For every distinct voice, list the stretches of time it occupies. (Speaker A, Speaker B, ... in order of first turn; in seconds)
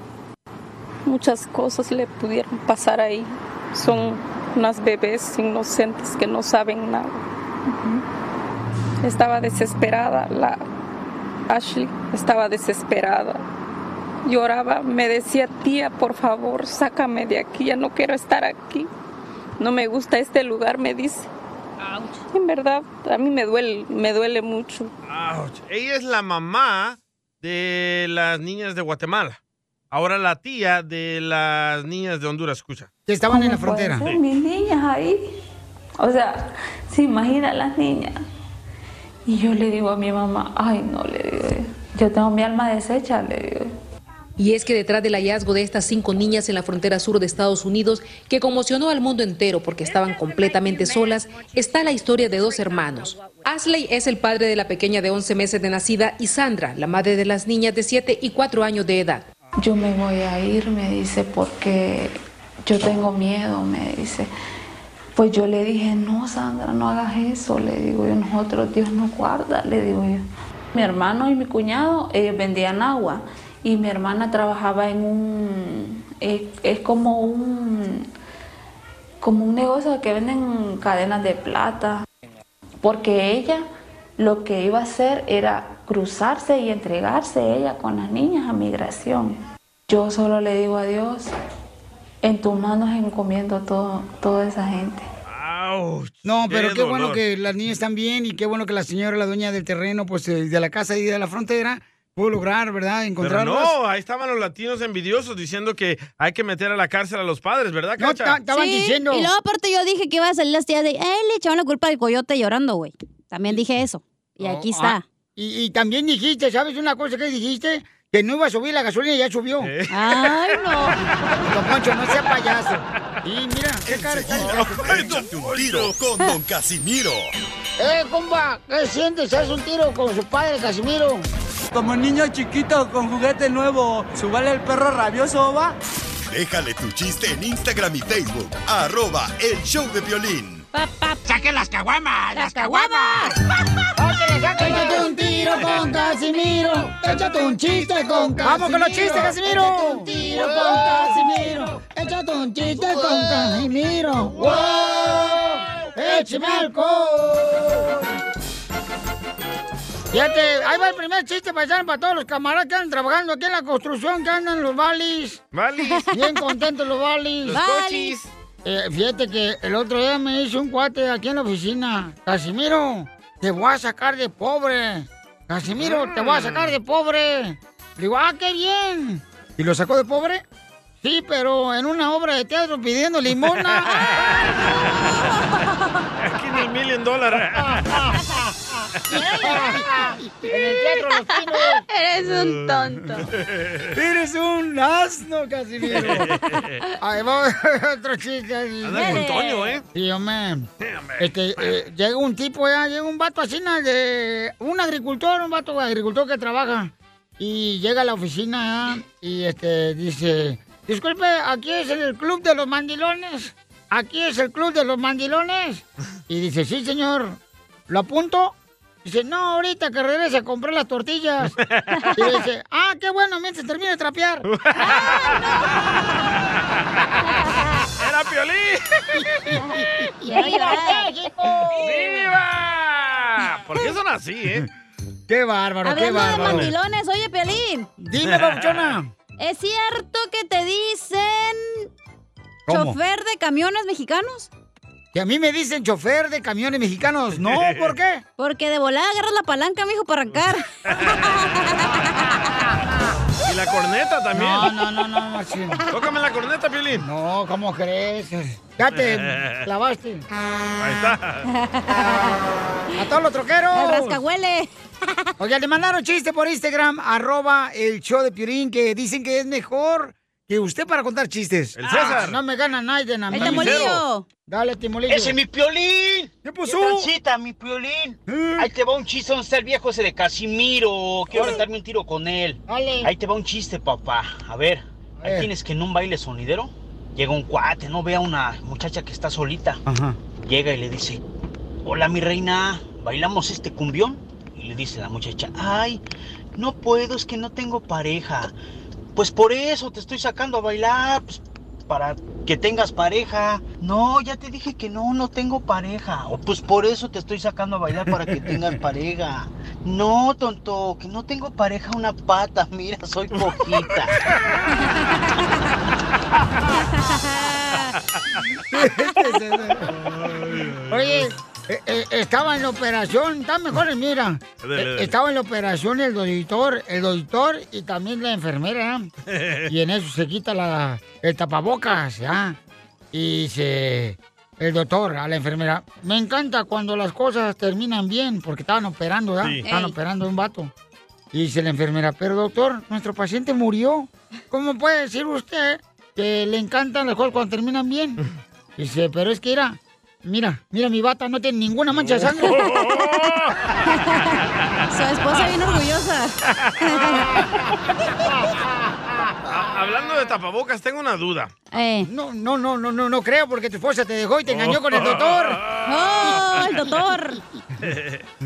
Speaker A: 1.1-7.2, 9.0-10.6, 11.5-13.4, 14.3-18.9, 19.6-21.3, 22.3-24.9
Speaker B: 25.1-29.4, 29.9-32.9, 95.3-97.2, 103.2-108.4, 119.6-120.8, 124.2-126.0, 165.5-166.1, 167.5-168.3, 175.8-176.7, 184.1-184.6, 186.2-188.1, 192.2-192.7, 193.3-193.9, 195.9-196.8, 198.8-199.8, 200.8-201.8, 221.7-222.0, 224.5-225.6, 228.0-229.2, 231.7-234.7, 236.4-236.8, 238.2-239.0, 247.4-247.9, 250.3-251.2, 253.4-254.7, 255.9-257.1, 258.9-259.6, 260.8-261.5, 271.8-272.4, 273.4-274.0, 320.0-321.3, 324.6-325.1, 329.3-329.7, 351.9-353.6, 359.5-361.5, 364.5-366.6, 367.8-368.3
Speaker C: 33.1-34.0, 96.2-103.7, 108.0-109.3, 114.4-119.7, 121.5-125.2, 127.8-131.3, 144.0-158.0, 160.1-165.4, 166.1-167.6, 168.7-180.4, 181.0-184.0, 189.4-189.8, 190.5-191.8, 193.9-196.3, 197.0-199.3, 199.9-200.7, 201.2-221.6, 222.1-224.4, 230.3-232.3, 235.3-236.7, 238.0-239.1, 242.7-243.0, 245.1-248.2, 254.3-255.8, 257.0-260.2, 263.0-264.2, 265.4-275.4, 276.4-277.1, 278.3-278.7, 281.3-281.6, 282.7-283.1, 285.2-285.5, 289.9-290.2, 318.7-319.9, 320.9-329.1, 329.7-332.6, 333.1-340.7, 341.3-348.2, 348.8-352.7, 362.1-365.6
Speaker D: 33.3-35.3, 36.0-38.2, 39.3-43.7, 59.6-64.3, 65.2-70.2, 70.7-78.1, 79.2-82.0, 82.8-83.7, 84.2-91.3, 92.2-95.1
Speaker E: 44.4-59.3
Speaker F: 108.5-115.0, 119.9-121.0, 140.7-141.3, 142.3-143.4, 144.6-145.5, 156.2-156.7, 167.5-168.2, 184.9-186.0, 189.1-189.9, 190.5-193.3, 198.9-199.8, 224.8-225.7, 230.2-231.1, 235.8-237.9, 239.4-241.9, 242.7-244.5, 248.4-252.3, 261.5-262.4, 263.7-264.7, 273.3-274.3, 316.9-317.9, 339.7-339.9, 354.9-357.4, 361.7-362.1, 365.9-367.4
Speaker G: 123.9-127.3, 136.3-140.7
Speaker H: 131.7-135.8, 141.4-142.7
Speaker I: 275.1-289.8, 290.3-291.2, 291.8-296.0, 296.6-298.6, 299.1-314.1